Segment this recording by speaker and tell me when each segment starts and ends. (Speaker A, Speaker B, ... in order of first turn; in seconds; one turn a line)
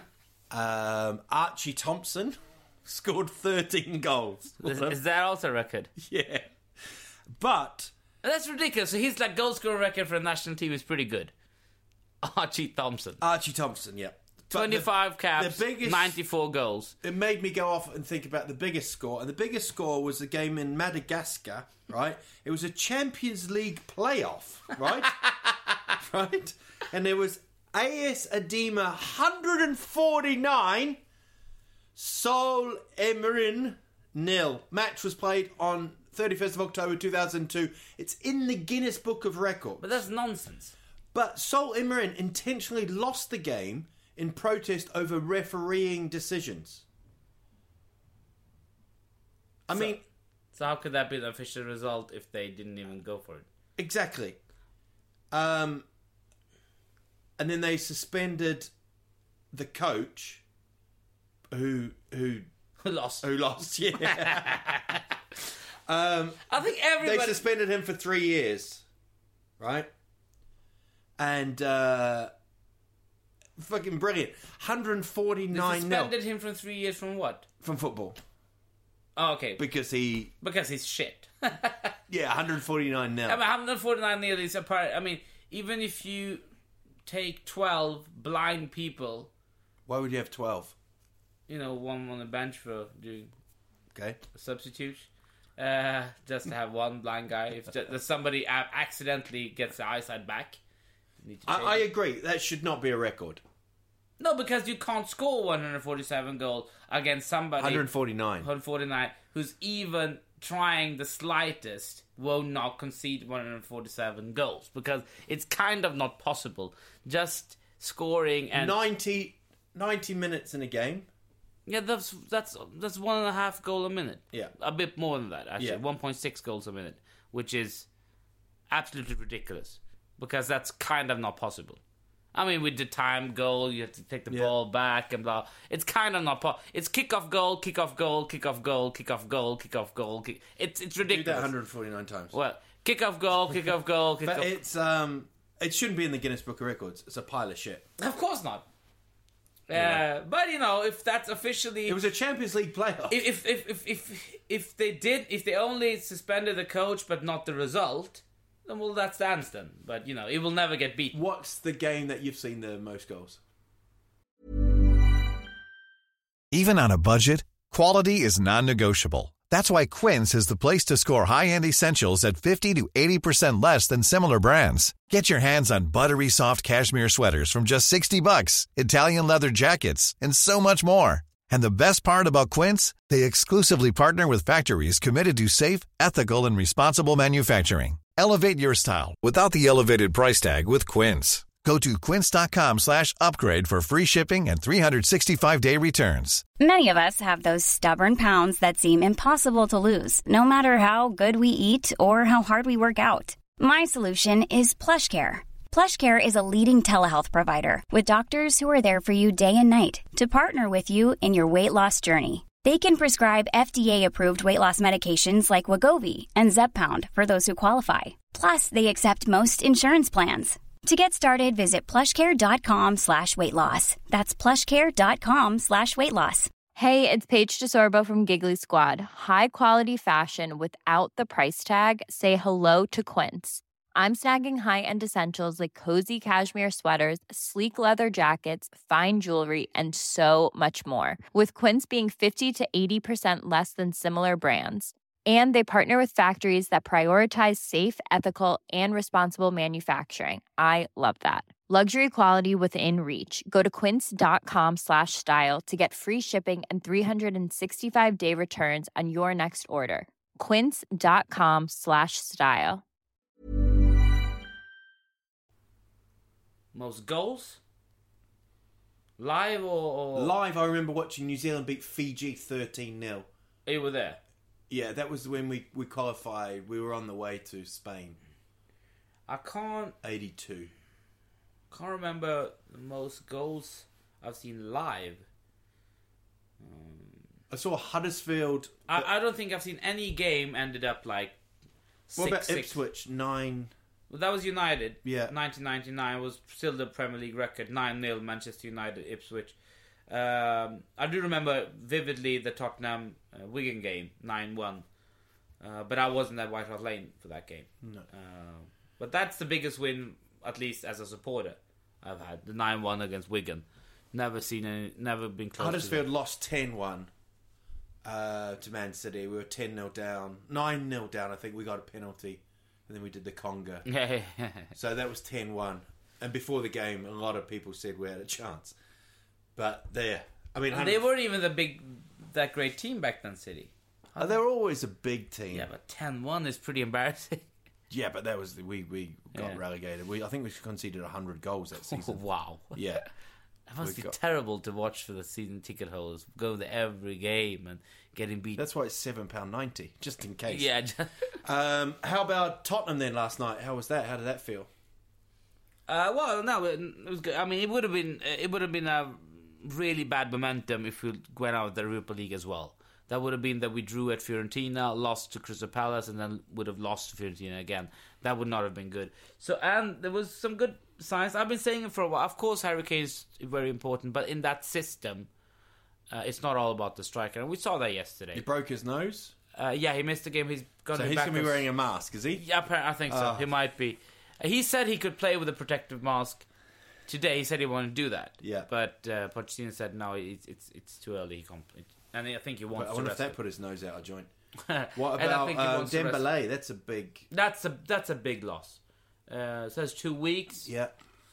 Speaker A: 0.5-5.0
Speaker B: 4.6-5.9
Speaker A: 6.0-6.5
Speaker A: 7.3-7.9
Speaker B: 8.2-11.3
Speaker B: 12.2-13.2
Speaker A: 13.2-16.2
Speaker B: 14.5-16.9
Speaker A: 17.0-31.0
Speaker A: 31.9-40.0
Speaker B: 39.8-40.7
Speaker A: 41.1-46.8
Speaker A: 49.7-50.0
Speaker B: 49.7-50.0
Speaker B: 50.5-53.5
Speaker A: 53.8-54.4
Speaker A: 55.3-55.9
Speaker A: 57.4-58.7
Speaker A: 59.5-60.4
Speaker A: 61.5-62.5
Speaker B: 62.8-63.3
Speaker A: 63.2-65.0
Speaker B: 63.9-65.0
Speaker A: 65.9-68.8
Speaker B: 66.5-67.4
Speaker A: 69.6-69.9
Speaker A: 71.2-72.3
Speaker A: 73.6-76.1
Speaker B: 75.5-77.5
Speaker A: 77.6-78.2
Speaker B: 79.2-79.6
Speaker A: 79.6-80.3
Speaker B: 80.4-82.0
Speaker A: 82.1-83.4
Speaker B: 83.3-86.4
Speaker B: 87.0-89.3
Speaker A: 89.8-90.7
Speaker B: 91.5-93.3
Speaker A: 93.9-94.2
Speaker B: 94.3-100.6
Speaker B: 101.2-101.9
Speaker A: 101.5-103.4
Speaker B: 104.2-107.9
Speaker A: 107.6-108.5
Speaker B: 108.4-118.8
Speaker A: 118.5-121.1
Speaker B: 121.7-127.9
Speaker B: 128.7-131.8
Speaker B: 132.3-141.5
Speaker A: 134.3-134.5
Speaker A: 141.0-142.3
Speaker B: 142.3-144.5
Speaker A: 144.2-147.9
Speaker B: 148.0-148.7
Speaker B: 149.7-152.0
Speaker A: 149.7-150.0
Speaker A: 151.8-153.2
Speaker B: 153.1-161.2
Speaker A: 161.1-163.4
Speaker C: 166.5-196.4
Speaker D: 196.6-226.5
Speaker E: 226.8-262.8
Speaker B: 266.7-267.6
Speaker B: 269.2-270.3
Speaker A: 270.1-273.3
Speaker B: 273.6-274.2
Speaker A: 274.7-278.2
Speaker B: 279.3-279.9
Speaker A: 280.0-280.7
Speaker B: 281.7-285.2
Speaker B: 286.6-287.3
Speaker A: 287.5-289.1
Speaker B: 288.9-291.4
Speaker B: 292.1-292.8
Speaker A: 292.1-293.7
Speaker B: 294.1-299.5
Speaker A: 295.0-295.3
Speaker B: 300.1-304.8
Speaker B: 305.6-316.1
Speaker A: 307.8-308.1
Speaker A: 315.6-317.1
Speaker A: 318.0-323.9
Speaker B: 323.9-324.7
Speaker A: 324.7-328.7
Speaker A: 329.6-331.1
Speaker B: 330.7-334.4
Speaker A: 334.2-335.7
Speaker B: 335.5-337.4
Speaker A: 337.9-342.2
Speaker B: 339.3-339.6
Speaker B: 341.9-343.1
Speaker A: 342.7-343.0
Speaker B: 343.7-348.6
Speaker A: 343.8-344.1
Speaker A: 348.6-350.7
Speaker B: 350.5-351.3
Speaker A: 351.4-354.7
Speaker B: 355.9-375.3
Speaker B: 376.1-378.4
Speaker A: 378.3-379.3
Speaker B: 379.5-381.7
Speaker A: 380.9-382.4
Speaker B: 382.4-386.4
Speaker A: 383.1-383.4
Speaker B: 387.1-393.4
Speaker A: 388.4-388.7
Speaker A: 392.7-394.3
Speaker B: 394.7-396.3
Speaker A: 394.9-397.3
Speaker B: 397.3-400.7
Speaker A: 400.6-400.9